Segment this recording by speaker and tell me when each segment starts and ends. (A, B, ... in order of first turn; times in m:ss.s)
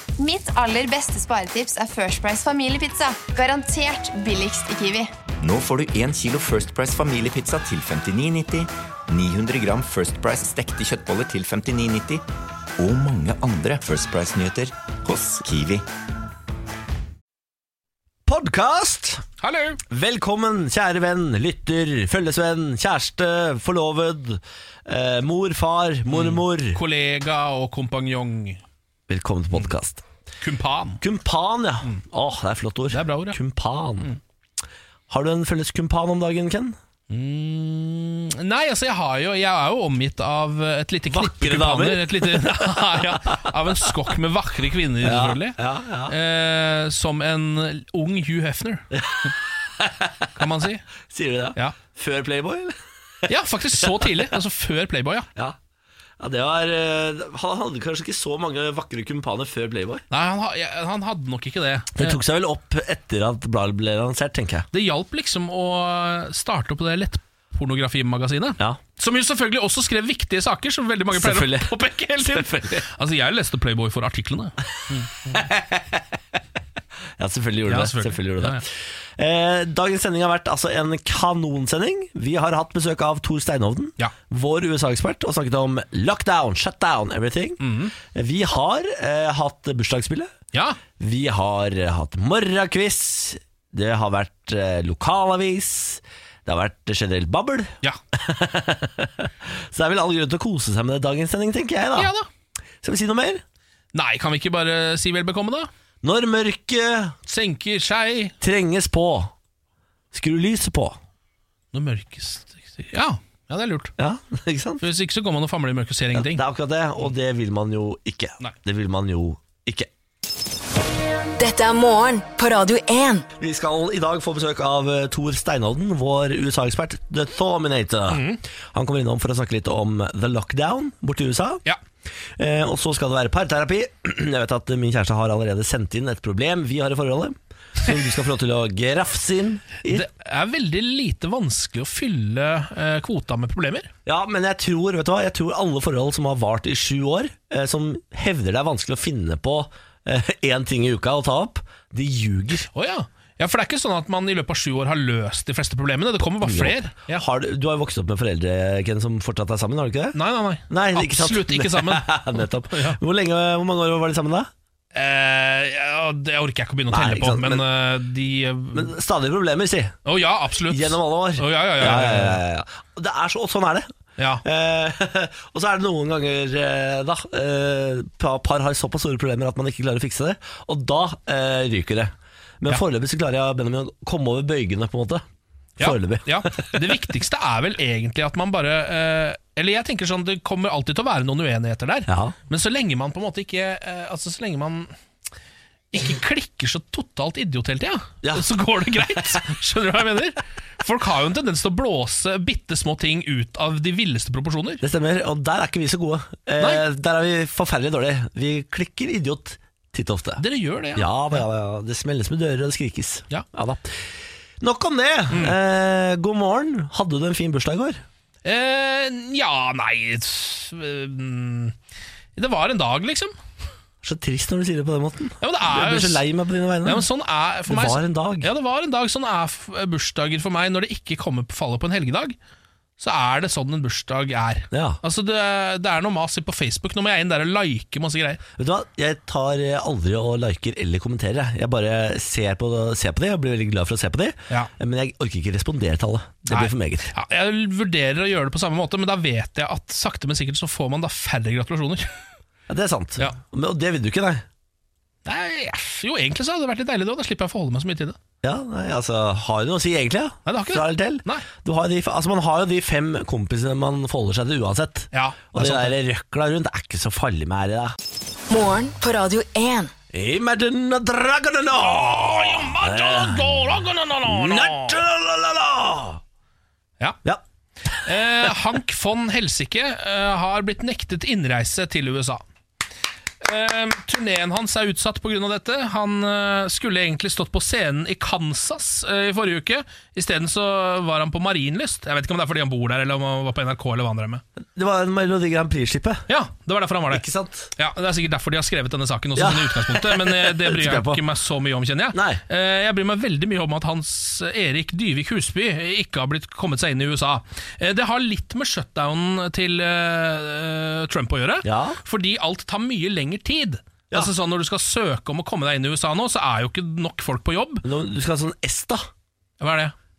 0:00.2-0:05.1 A
0:05.4-0:12.2 B
0:12.8-0:15.8 B
0:18.2-0:19.2 C
0:19.4-0:19.8 D
0:19.9-0:26.8 C
0:26.1-0:28.6 D
0:29.1-0:30.0 C
0:30.4-0:31.0 D
0:31.0-0:34.1 C
0:32.9-0:33.4 D
0:35.1-0:36.8 C
0:37.1-0:48.8 D
0:41.1-0:44.0 C
0:45.0-0:46.2 C
0:48.9-0:50.3 C
0:50.4-0:50.9 D
0:51.0-0:54.1 C
0:53.3-0:55.3 D
0:56.2-1:00.0 C
1:00.1-1:02.2 D
1:01.9-1:04.7 C
1:04.7-1:15.3 D
1:11.1-1:12.8 C
1:15.2-1:16.4 C
1:17.2-1:30.3 C
1:17.7-1:18.6 D
1:27.6-1:27.9 D
1:30.5-1:30.8 D
1:31.0-1:42.1 C
1:42.0-1:42.3 D
1:42.8-1:43.4 C
1:43.9-1:45.7 D
1:46.0-1:47.2 C
1:47.3-1:48.3 D
1:48.4-1:49.3 C
1:50.1-1:51.0 C
1:51.7-1:53.9 D
1:54.0-1:54.8 C
1:54.8-1:56.4 D
1:56.1-1:59.9 C
2:01.4-2:03.2 E
2:03.4-2:11.6 C
2:08.1-2:08.4 D
2:12.4-2:20.1 C
2:19.9-2:23.9 D
2:24.0-2:32.7 C
2:32.7-2:37.2 D
2:36.4-2:40.2 C
2:40.1-2:42.2 D
2:40.7-2:44.5 C
2:42.7-2:43.0 D
2:44.9-2:48.9 D
2:46.9-2:47.6 C
2:48.7-2:50.0 C
2:50.0-2:52.4 D
2:50.7-2:53.9 C
2:54.2-2:54.4 D
2:54.4-3:05.2 C
3:05.8-3:07.0 C
3:05.8-3:14.9 D
3:12.1-3:12.4 C
3:15.9-3:24.8 D
3:18.2-3:19.4 C
3:24.8-3:30.4 C
3:30.4-3:31.1 D
3:31.0-3:34.1 C
3:34.6-3:38.0 C
3:38.4-3:41.8 D
3:42.4-3:43.4 D
3:44.0-3:47.0 C
3:45.4-3:46.2 D
3:46.8-3:52.4 D
3:47.7-3:48.5 C
3:53.0-3:58.4 D
3:54.7-3:55.0 C
3:58.6-4:07.1 C
4:06.5-4:12.2 D
4:12.7-4:14.4 C
4:15.2-4:18.2 D
4:18.4-4:28.0 C
4:20.5-4:21.4 D
4:25.1-4:25.9 D
4:28.5-4:29.9 E
4:30.1-4:36.2 C
4:31.8-4:35.0 D
4:37.2-4:38.5 C
4:38.0-4:42.4 D
4:43.4-4:54.4 D
4:54.7-4:56.2 C
4:56.3-4:57.2 D
4:57.1-4:57.7 C
4:57.8-5:17.8 D
4:59.4-5:01.2 C
5:02.1-5:02.4 C
5:11.6-5:12.0 C
5:17.8-5:19.0 C
5:19.6-5:19.9 D